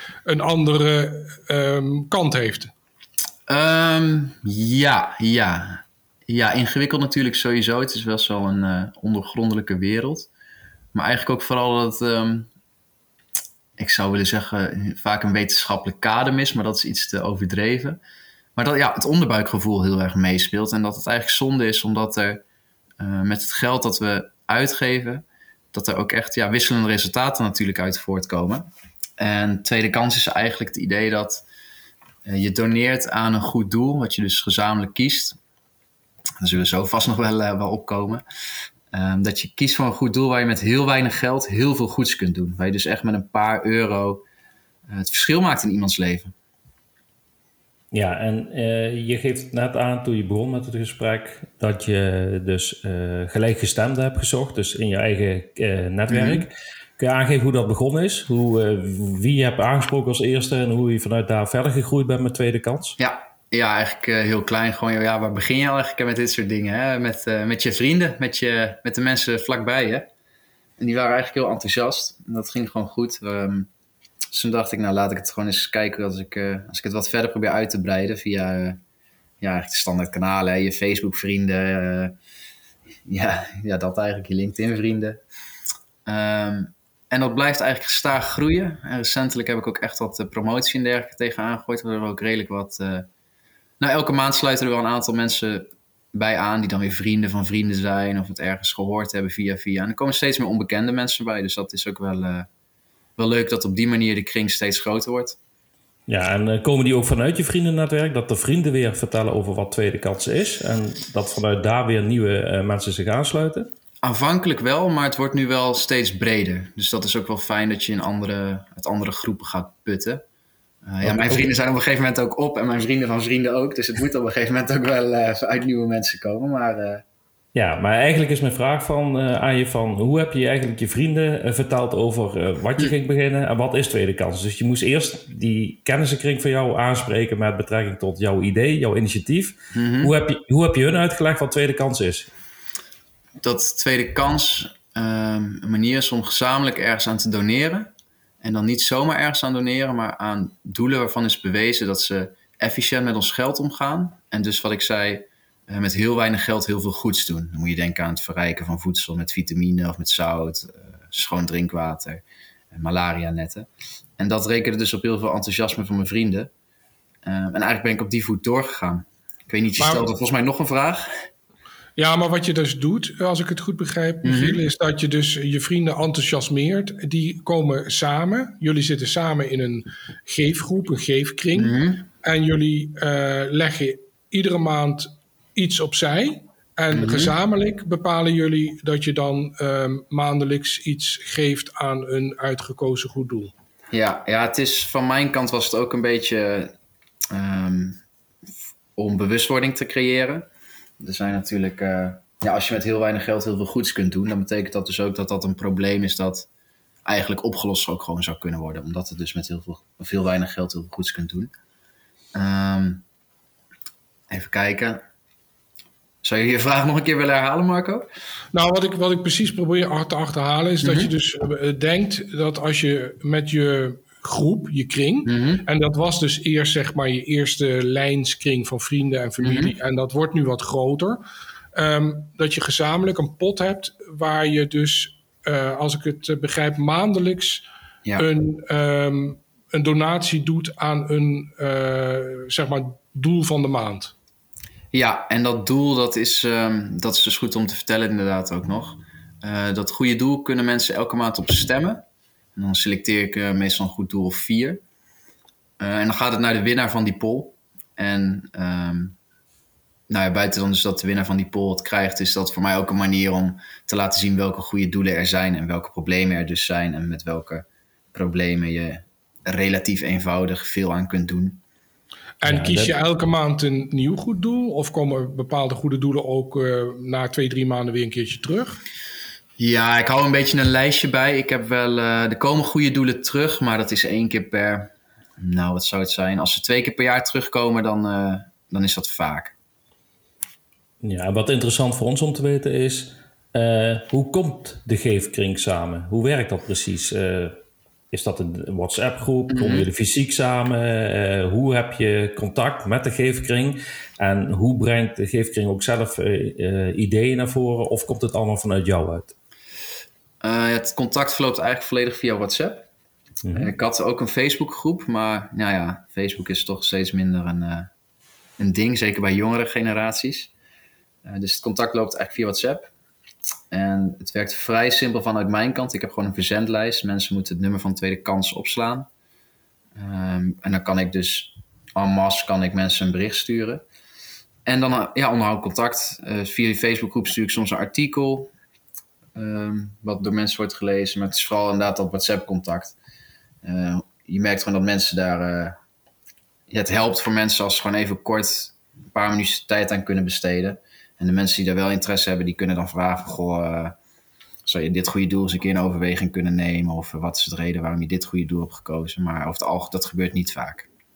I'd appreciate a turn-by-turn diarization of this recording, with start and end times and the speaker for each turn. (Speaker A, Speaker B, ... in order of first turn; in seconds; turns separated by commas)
Speaker A: 0.2-2.7, Speaker B: 3.5-10.3, Speaker B: 10.9-12.5, Speaker B: 13.8-18.0, Speaker B: 18.6-22.4, Speaker B: 23.0-31.4, Speaker B: 32.2-35.4, Speaker B: 36.4-38.2, Speaker B: 38.9-44.2, Speaker B: 44.9-46.3, Speaker C: 47.9-63.0, Speaker B: 56.1-56.5, Speaker B: 63.0-70.1, Speaker B: 70.8-73.7, Speaker B: 74.3-78.8, Speaker B: 79.4-82.1, Speaker B: 83.0-85.2, Speaker B: 86.0-93.1, Speaker B: 93.8-102.5, Speaker B: 103.2-105.4, Speaker C: 106.1-113.7, Speaker B: 114.0-120.2, Speaker B: 120.8-127.0, Speaker C: 121.0-121.5, Speaker C: 127.5-142.3, Speaker B: 139.7-140.1, Speaker B: 143.4-147.9, Speaker B: 148.4-166.5, Speaker B: 167.2-171.1, Speaker A: 169.8-170.1, Speaker A: 172.0-193.5, Speaker B: 174.2-174.6, Speaker B: 181.5-182.1, Speaker B: 186.9-187.3, Speaker B: 193.9-196.7, Speaker B: 197.3-198.0, Speaker B: 198.9-200.5, Speaker B: 201.0-206.5, Speaker B: 207.0-211.5, Speaker B: 212.3-213.0, Speaker B: 214.3-215.0, Speaker B: 216.2-218.1, Speaker A: 218.5-231.2, Speaker B: 220.8-221.1, Speaker B: 225.2-225.6, Speaker B: 229.4-229.7, Speaker A: 231.7-237.6, Speaker A: 238.2-244.1, Speaker B: 244.9-252.0, Speaker B: 252.6-254.8, Speaker B: 255.8-259.1, Speaker B: 260.1-271.6, Speaker A: 272.4-278.8, Speaker C: 272.4-272.9, Speaker B: 279.6-289.5, Speaker C: 291.0-297.6, Speaker C: 298.1-309.3, Speaker B: 299.5-299.9, Speaker B: 310.4-312.9, Speaker C: 313.4-313.7, Speaker B: 313.5-317.9, Speaker B: 318.6-320.5, Speaker B: 321.2-322.9, Speaker B: 323.7-329.1, Speaker B: 329.9-333.8, Speaker B: 334.6-338.5, Speaker B: 339.3-342.9, Speaker B: 343.6-345.8, Speaker B: 346.7-353.9, Speaker B: 354.6-360.9